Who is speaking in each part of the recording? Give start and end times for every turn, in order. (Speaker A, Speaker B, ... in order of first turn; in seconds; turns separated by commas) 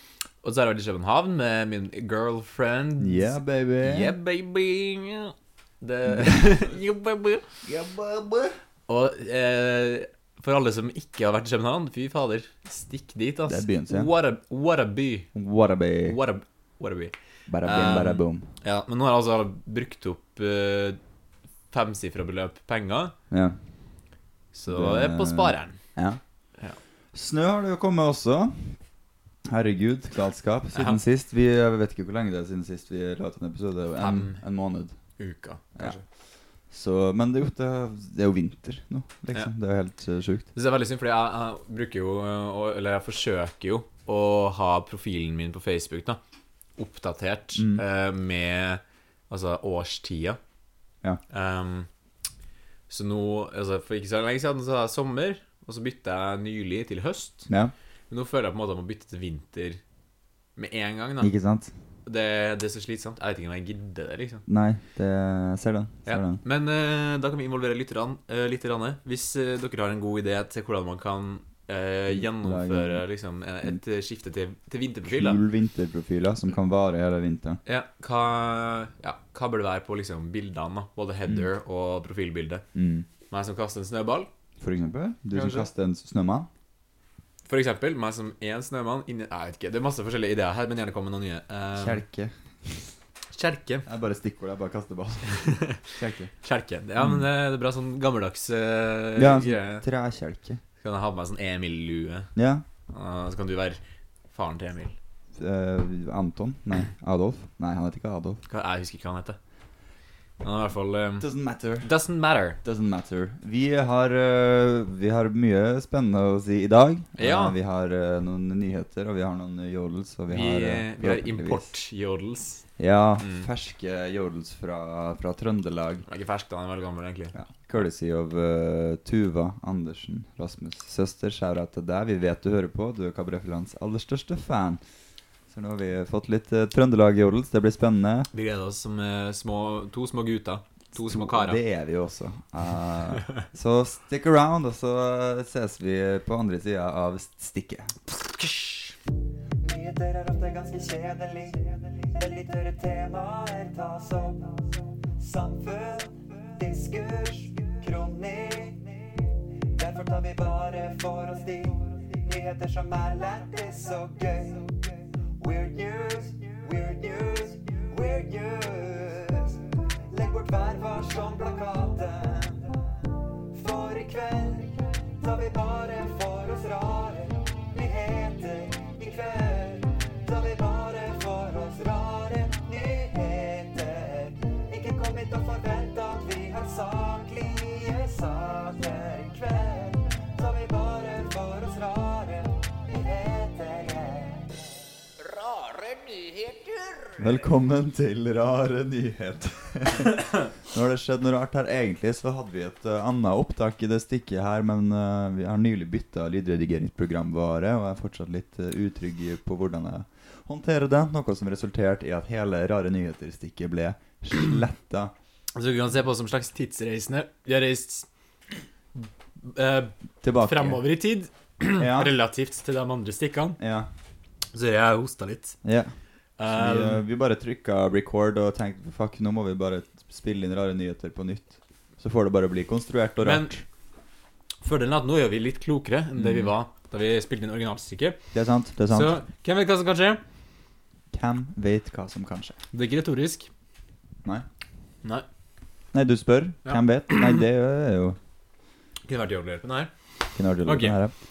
Speaker A: 0.4-7.6, Speaker B: 3.0-4.1, Speaker B: 6.1-6.4, Speaker B: 7.7-8.5, Speaker A: 8.9-15.3, Speaker B: 13.5-14.1, Speaker B: 15.3-16.2, Speaker A: 16.1-21.0, Speaker B: 17.5-18.5, Speaker A: 21.7-23.1, Speaker B: 23.3-23.6, Speaker A: 24.5-25.8, Speaker B: 24.7-26.2, Speaker B: 27.1-28.8, Speaker B: 29.5-35.0, Speaker A: 30.7-31.0, Speaker A: 34.0-34.4, Speaker A: 35.2-36.0, Speaker B: 36.7-40.5, Speaker A: 40.5-46.2, Speaker A: 46.8-50.4, Speaker B: 47.5-47.8, Speaker A: 51.3-51.9, Speaker A: 52.9-57.5, Speaker A: 58.1-59.8, Speaker A: 60.6-61.3, Speaker B: 61.2-61.7, Speaker A: 62.1-64.5, Speaker B: 64.5-66.4, Speaker A: 66.1-75.4, Speaker B: 72.1-73.0, Speaker B: 75.1-77.6, Speaker A: 77.7-82.6, Speaker B: 82.7-83.1, Speaker A: 83.3-84.3, Speaker B: 84.6-86.5, Speaker A: 85.3-85.7, Speaker A: 87.5-92.0, Speaker B: 91.8-92.9, Speaker A: 93.3-93.9, Speaker B: 93.9-96.3, Speaker A: 95.3-99.8, Speaker B: 99.2-100.6, Speaker A: 100.8-102.3, Speaker B: 102.3-102.7, Speaker A: 102.9-103.8, Speaker A: 104.3-105.0, Speaker B: 105.4-108.4, Speaker A: 108.5-109.4, Speaker A: 110.4-111.3, Speaker B: 111.2-111.9, Speaker A: 111.8-112.6, Speaker B: 112.6-121.7, Speaker A: 117.2-117.5, Speaker A: 120.3-122.6, Speaker B: 122.8-126.0, Speaker A: 123.2-123.5, Speaker A: 126.1-127.3, Speaker B: 127.3-134.8, Speaker B: 135.5-138.3, Speaker A: 138.3-141.6, Speaker B: 140.9-147.9, Speaker A: 148.3-148.9, Speaker C: 149.6-154.6, Speaker C: 155.2-158.9, Speaker C: 159.8-164.8, Speaker C: 165.4-169.6, Speaker C: 170.1-172.6, Speaker C: 173.5-194.4, Speaker C: 195.3-197.2, Speaker B: 197.2-215.1, Speaker A: 215.6-218.1, Speaker A: 219.4-223.6, Speaker B: 220.2-220.8, Speaker B: 221.8-222.1, Speaker B: 223.6-223.9, Speaker A: 224.5-225.6, Speaker B: 225.6-225.9, Speaker A: 226.4-227.0, Speaker B: 226.5-233.6, Speaker A: 233.2-233.6, Speaker A: 234.6-238.2, Speaker B: 236.2-236.5, Speaker B: 238.3-239.2, Speaker A: 238.9-240.2, Speaker B: 241.1-242.6, Speaker A: 242.7-243.5, Speaker B: 245.9-248.2, Speaker A: 246.7-247.4, Speaker A: 249.1-249.9, Speaker B: 250.4-251.1, Speaker A: 250.6-251.0